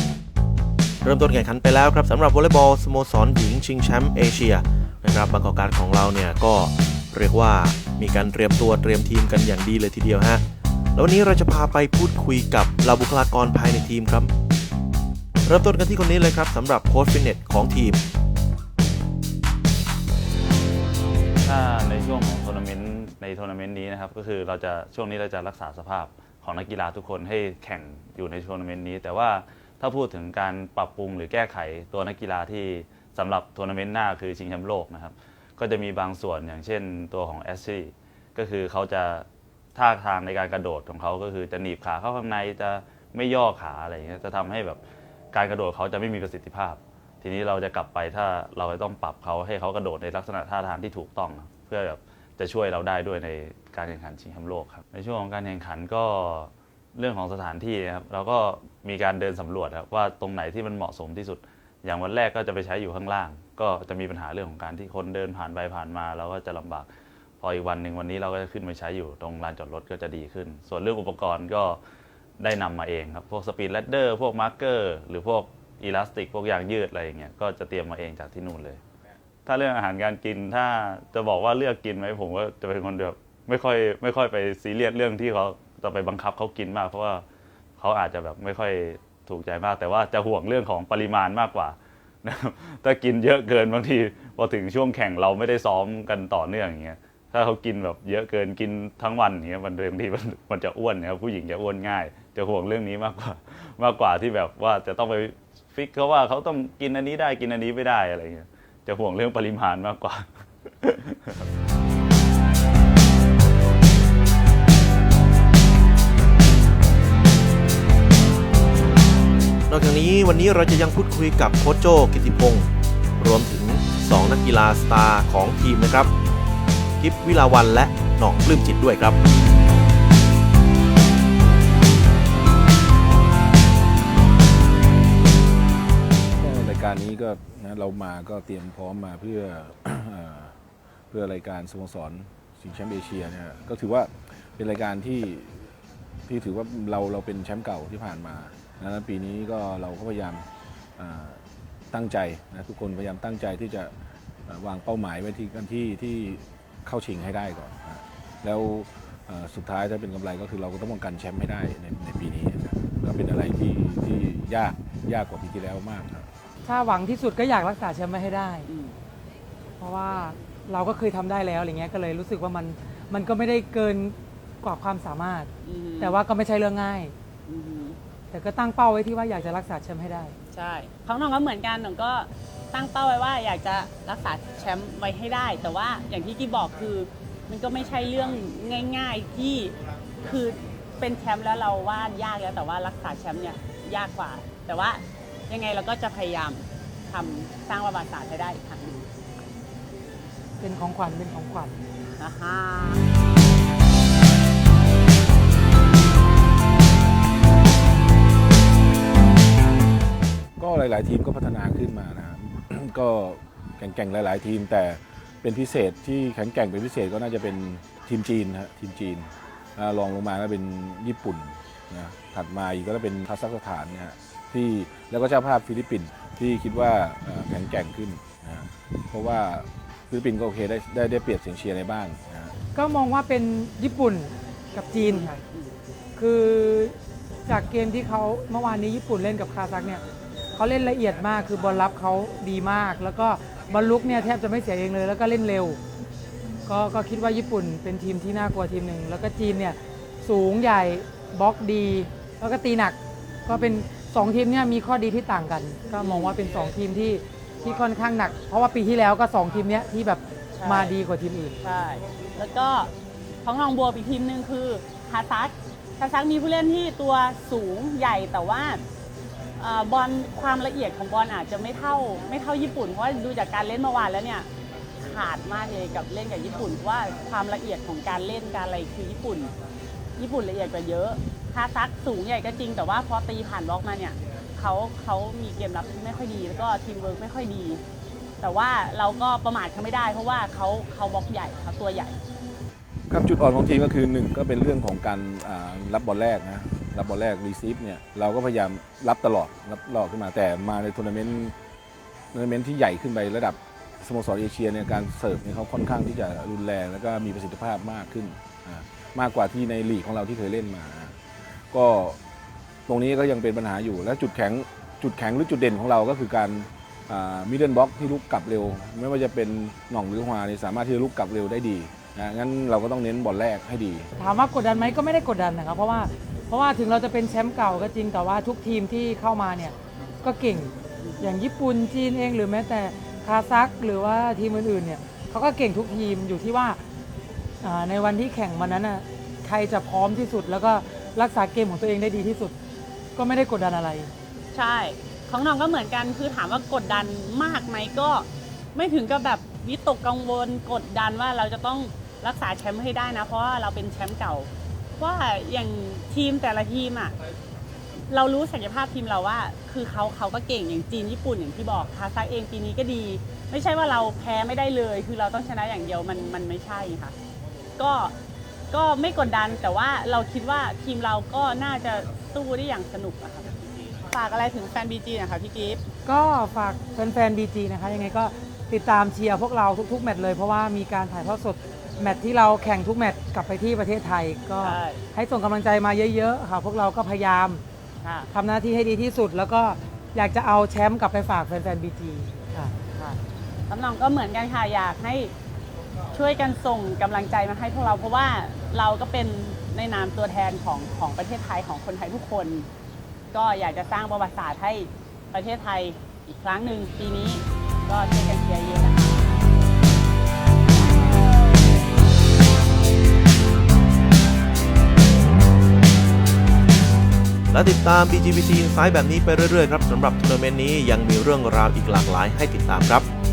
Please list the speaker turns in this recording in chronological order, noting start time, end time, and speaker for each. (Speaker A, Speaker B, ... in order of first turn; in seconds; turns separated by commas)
Speaker A: 1.0-10.4, Speaker A: 10.9-14.3, Speaker A: 15.4-18.0, Speaker B: 21.4-66.9, Speaker B: 67.4-71.8, Speaker B: 72.4-78.8, Speaker B: 79.5-87.2, Speaker B: 87.8-111.4, Speaker A: 119.7-126.1, Speaker A: 127.0-129.2, Speaker C: 136.3-140.6, Speaker C: 141.1-145.8, Speaker C: 146.3-153.9, Speaker C: 154.5-166.3, Speaker D: 166.6-168.7, Speaker E: 168.7-169.0, Speaker D: 169.8-177.1, Speaker E: 175.6-176.2, Speaker E: 177.4-178.0, Speaker D: 178.3-180.3, Speaker E: 180.5-199.1, Speaker D: 200.6-201.8, Speaker E: 202.1-203.0, Speaker C: 210.6-232.5, Speaker D: 232.7-235.4, Speaker E: 235.0-235.8, Speaker D: 236.2-240.0, Speaker D: 240.5-245.8, Speaker D: 246.7-261.6, Speaker E: 253.5-253.8, Speaker E: 256.0-256.4, Speaker E: 260.5-260.9, Speaker E: 261.6-262.9, Speaker E: 263.4-268.8, Speaker E: 269.6-274.5, Speaker E: 275.0-279.5, Speaker E: 280.2-287.8, Speaker E: 288.4-292.2, Speaker C: 293.1-301.5, Speaker C: 302.3-311.2, Speaker C: 311.7-312.2, Speaker C: 312.9-324.1, Speaker D: 324.2-336.8, Speaker E: 331.0-331.3, Speaker D: 337.6-342.6, Speaker D: 343.1-344.1, Speaker E: 344.5-357.1, Speaker E: 358.1-367.1, Speaker E: 367.8-368.1, Speaker E: 368.7-373.5, Speaker E: 374.1-375.8, Speaker D: 376.0-387.6, Speaker E: 384.6-385.0, Speaker E: 388.0-388.3, Speaker D: 388.3-392.7, Speaker E: 392.9-395.3, Speaker E: 396.1-402.6, Speaker E: 403.3-409.3, Speaker A: 417.5-423.1